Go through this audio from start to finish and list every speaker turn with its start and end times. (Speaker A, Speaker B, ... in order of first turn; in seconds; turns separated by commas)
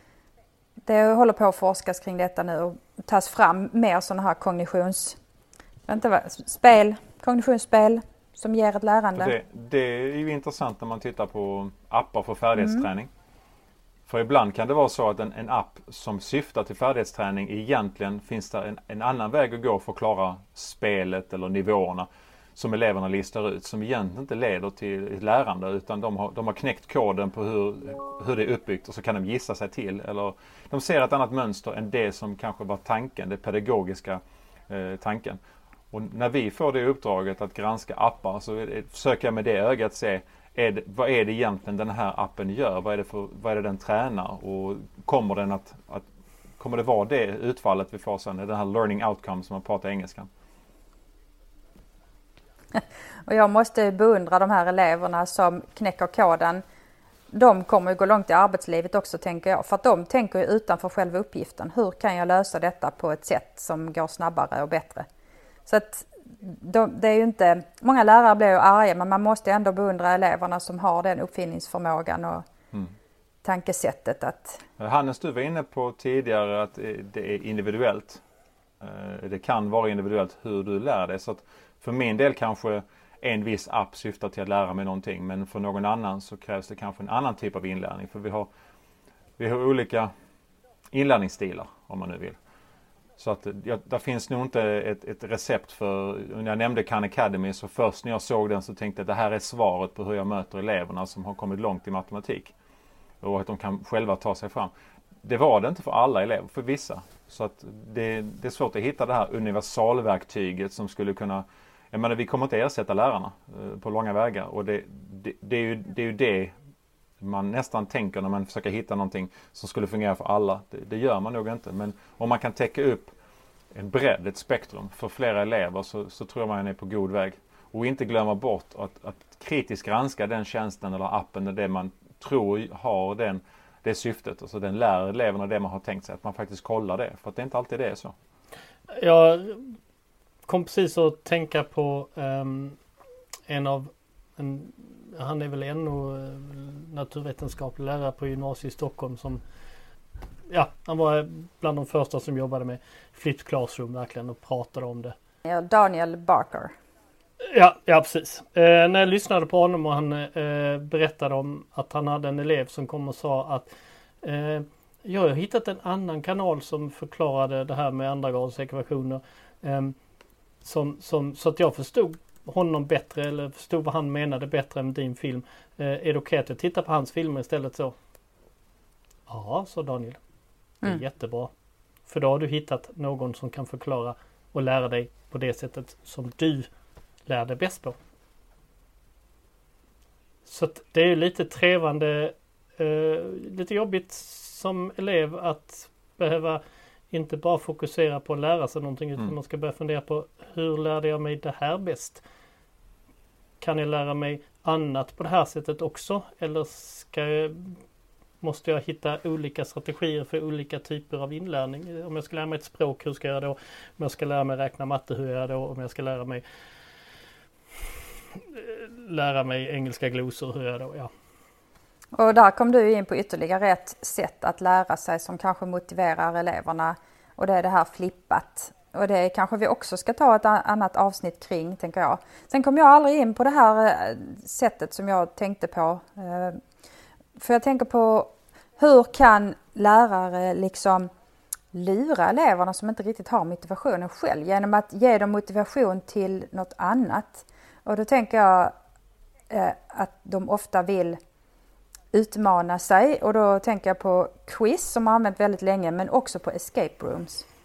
Speaker A: 0.8-5.2, Speaker A: 5.9-9.3, Speaker B: 9.2-13.1, Speaker A: 12.6-12.9, Speaker B: 14.1-35.4, Speaker B: 35.9-46.0, Speaker B: 46.6-50.3, Speaker A: 52.7-56.6, Speaker A: 57.3-65.0, Speaker A: 65.7-72.4, Speaker A: 73.4-74.6, Speaker B: 74.8-78.2, Speaker B: 78.8-88.5, Speaker B: 89.4-90.1, Speaker B: 90.9-92.4, Speaker B: 93.2-102.5, Speaker B: 103.2-104.7, Speaker B: 105.2-116.5, Speaker B: 117.2-123.1, Speaker B: 123.7-138.1, Speaker C: 138.9-139.7, Speaker C: 140.4-142.8, Speaker C: 143.5-149.4, Speaker C: 150.5-155.1, Speaker A: 155.4-156.7, Speaker C: 157.4-163.7, Speaker C: 164.2-169.9, Speaker C: 170.6-177.9, Speaker C: 179.3-180.2, Speaker C: 180.8-181.5, Speaker C: 182.1-186.7, Speaker C: 187.2-187.9, Speaker C: 190.4-196.6, Speaker C: 197.1-202.2, Speaker C: 203.6-207.8, Speaker C: 208.4-216.4, Speaker C: 218.4-221.1, Speaker A: 222.1-236.6, Speaker A: 237.4-241.1, Speaker A: 241.7-248.7, Speaker A: 249.5-251.2, Speaker A: 252.1-257.4